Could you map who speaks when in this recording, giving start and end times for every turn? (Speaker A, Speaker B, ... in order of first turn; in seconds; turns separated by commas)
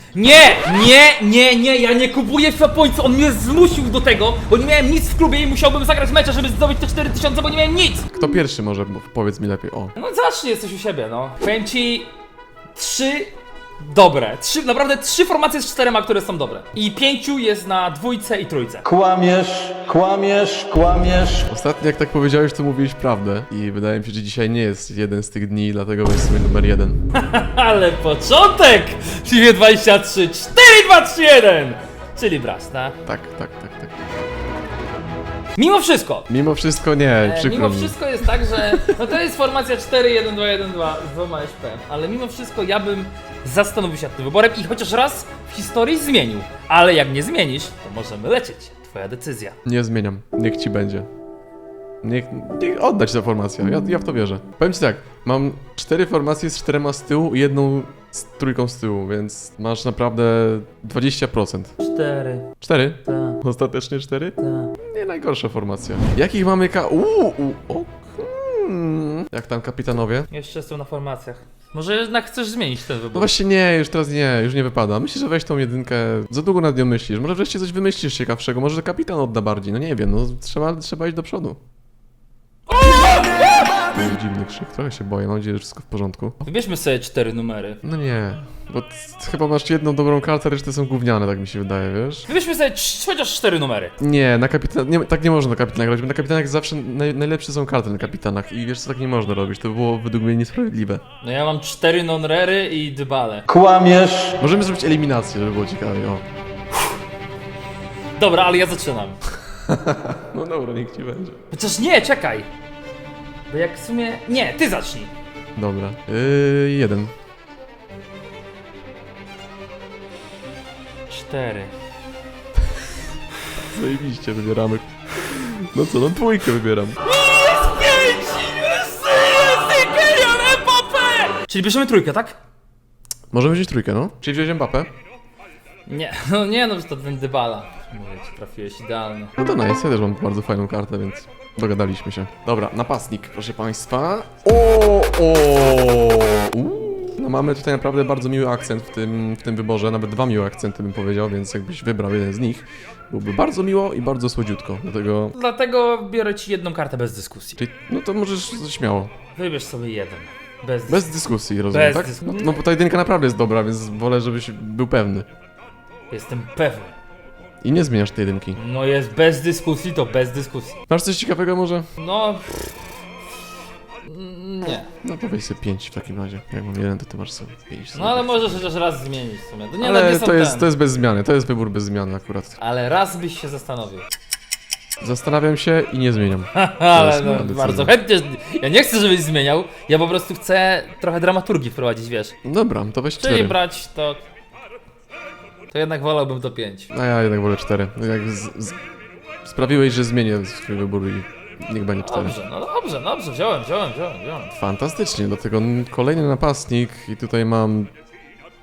Speaker A: 0.1-8.1, Speaker B: 8.1-9.9, Speaker A: 9.9-12.1, Speaker A: 12.7-18.8, Speaker C: 18.8-21.4, Speaker B: 21.5-27.0, Speaker A: 27.1-33.0, Speaker B: 33.0-33.9, Speaker A: 35.6-36.3, Speaker B: 36.3-39.0, Speaker A: 37.2-49.6, Speaker B: 49.6-51.1, Speaker B: 52.0-61.8, Speaker A: 61.8-62.5, Speaker B: 62.6-70.3, Speaker A: 63.0-63.4, Speaker A: 64.4-64.8, Speaker A: 70.3-73.3, Speaker B: 73.1-81.6, Speaker A: 82.8-83.8, Speaker B: 83.8-86.4, Speaker A: 86.4-87.8, Speaker B: 87.8-92.3, Speaker A: 92.3-93.9, Speaker B: 94.0-101.0, Speaker A: 101.2-103.5, Speaker C: 103.5-104.4, Speaker B: 104.4-106.2, Speaker A: 108.2-109.2, Speaker B: 109.7-111.4, Speaker A: 111.5-112.5, Speaker A: 113.5-115.1, Speaker B: 115.5-117.1, Speaker A: 121.1-121.7, Speaker B: 123.6-127.0, Speaker A: 127.0-132.4, Speaker B: 133.3-134.9, Speaker A: 135.9-139.3, Speaker B: 139.4-155.3, Speaker A: 155.3-157.6, Speaker B: 157.6-159.1, Speaker A: 159.3-161.1, Speaker B: 160.9-165.2, Speaker A: 161.7-162.6, Speaker A: 166.1-166.9, Speaker B: 167.6-168.6, Speaker A: 168.6-170.8, Speaker B: 170.9-171.9, Speaker A: 172.0-172.6, Speaker A: 174.0-174.9, Speaker B: 175.0-178.6, Speaker A: 177.9-180.7, Speaker B: 179.8-182.6, Speaker A: 182.6-184.1, Speaker B: 185.0-187.9, Speaker A: 186.5-192.3, Speaker B: 192.4-193.6, Speaker A: 193.2-194.2, Speaker A: 195.7-196.9, Speaker B: 196.9-198.8, Speaker B: 199.4-202.4, Speaker A: 202.0-204.5, Speaker B: 204.5-207.9